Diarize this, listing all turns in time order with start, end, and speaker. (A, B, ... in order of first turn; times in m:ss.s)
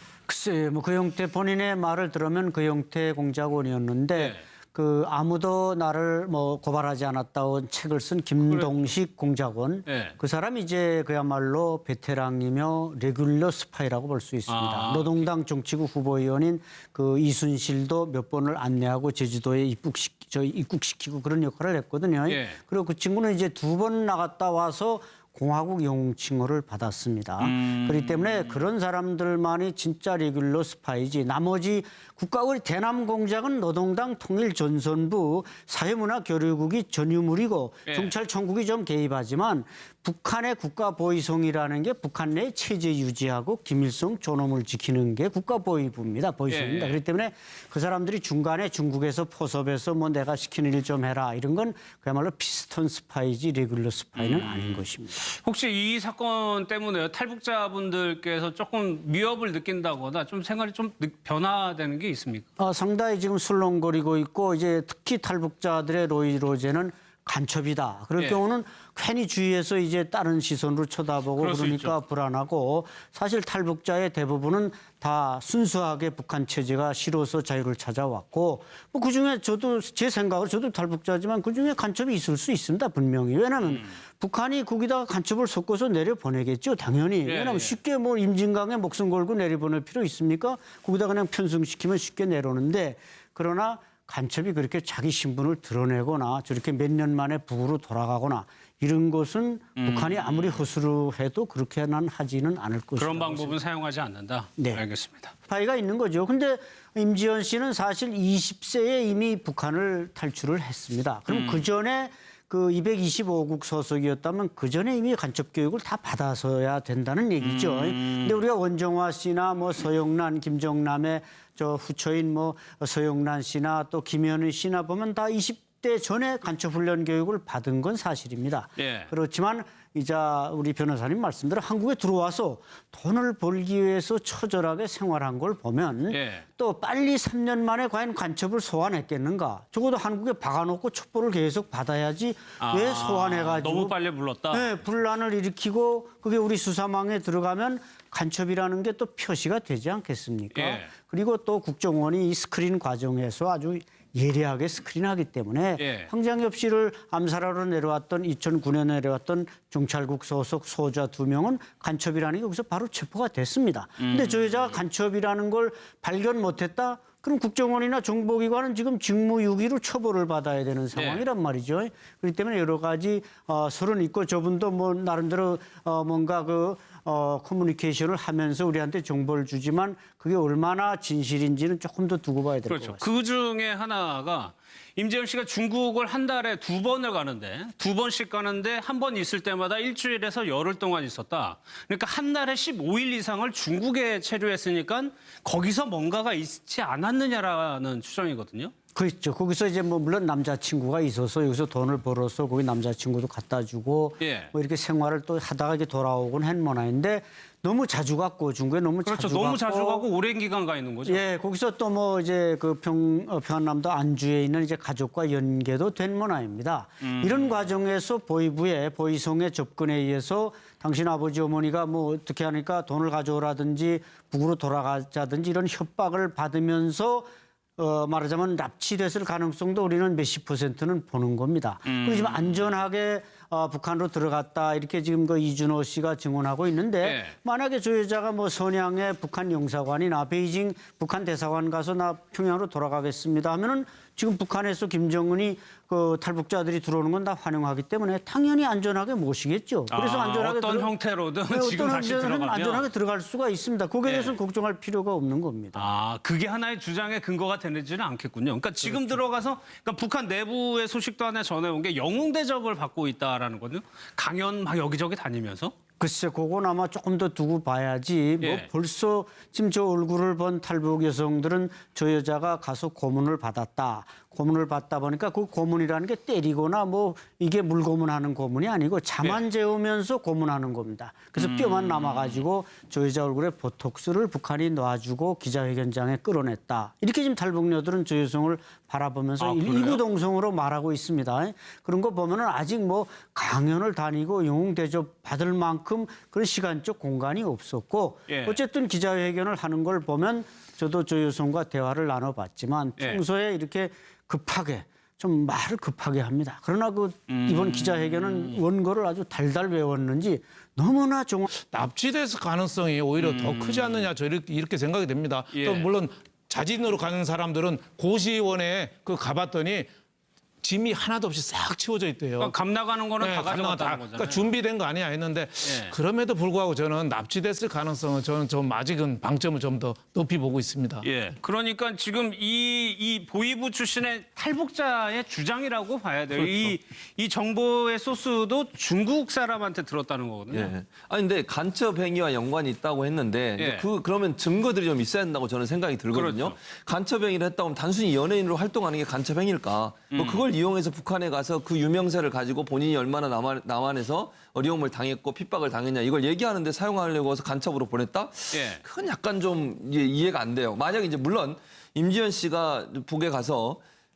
0:00.3-0:55.3 A
0:04.2-0:04.4 B
0:09.9-0:10.2 B
0:14.5-0:15.2 B
0:22.3-0:22.6 B
0:27.4-0:28.6 B
0:37.9-0:38.1 B
0:46.5-0:47.0 B
0:54.2-1:02.5 B
1:02.6-1:43.6 A
1:11.4-1:12.0 B
1:27.3-1:27.8 B
1:39.8-1:40.6 B
1:43.0-1:45.3 B
1:44.6-1:44.8 A
1:45.5-2:24.0 A
1:51.3-1:51.6 B
1:57.4-1:58.4 B
2:08.8-2:09.1 B
2:16.1-2:16.5 B
2:22.6-2:24.8 B
2:24.5-3:03.1 A
2:30.5-2:30.9 B
2:35.8-2:36.1 B
2:44.0-2:44.8 B
2:51.0-2:51.2 B
3:02.7-3:18.7 B
3:19.0-3:30.1 A
3:24.2-3:24.5 B
3:29.0-3:31.2 B
3:31.1-4:10.9 A
3:37.0-3:37.6 B
3:51.9-3:52.6 B
3:57.0-3:57.4 B
4:09.9-4:12.9 B
4:11.5-4:15.9 A
4:14.0-4:14.4 B
4:15.8-4:25.7 B
4:18.8-4:19.2 A
4:26.0-5:11.5 A
4:28.4-4:28.7 B
4:41.4-4:42.4 B
4:49.4-4:50.0 B
4:58.3-4:58.6 B
5:07.3-5:08.6 B
5:11.5-5:19.9 C
5:13.2-5:14.1 B
5:15.5-5:15.9 B
5:20.6-5:22.6 C
5:22.4-5:24.5 B
5:23.2-5:31.1 C
5:25.6-5:26.0 B
5:31.0-5:40.7 B
5:36.3-5:36.7 D
5:40.5-6:03.8 D
5:43.6-5:43.9 B
5:46.1-5:46.6 B
5:50.1-5:50.4 B
5:58.5-5:58.8 B